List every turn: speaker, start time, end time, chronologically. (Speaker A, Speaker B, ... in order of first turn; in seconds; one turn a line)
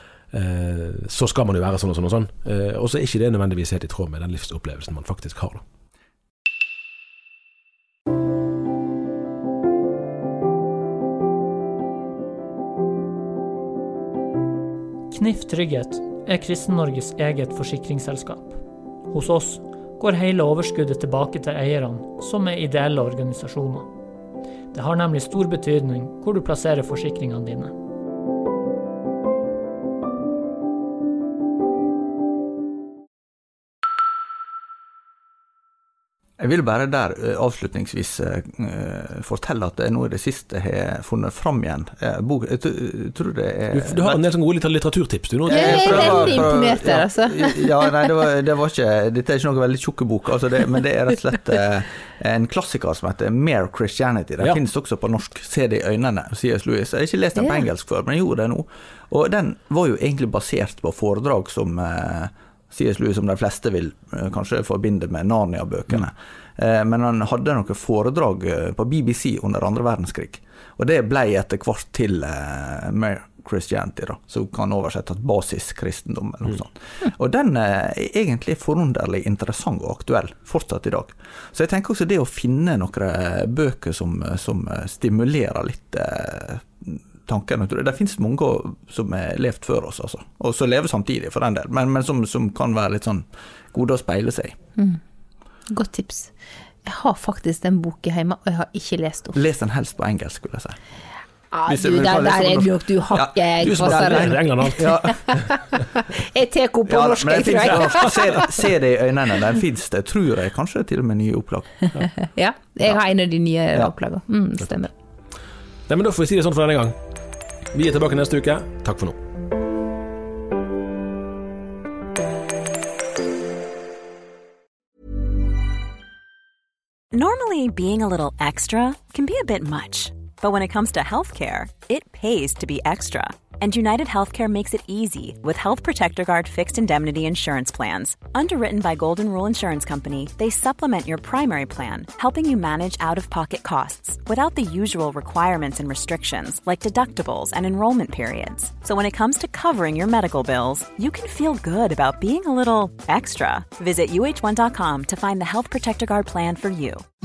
Speaker A: 0.3-5.6
Speaker B: 15.1-18.6
Speaker B: 19.1-23.9
Speaker B: 24.7-27.7
Speaker C: 36.4-44.2
Speaker A: 43.7-46.5
Speaker C: 45.5-94.5
Speaker D: 45.5-48.0
Speaker D: 57.4-57.6
Speaker D: 95.7-96.3
Speaker D: 96.8-99.3
Speaker C: 99.3-100.8
Speaker D: 101.5-108.5
Speaker C: 101.7-105.2
Speaker A: 103.6-105.4
Speaker C: 106.9-112.0
Speaker D: 112.2-114.9
Speaker A: 115.9-117.0
Speaker A: 117.7-119.2
Speaker E: 127.1-157.0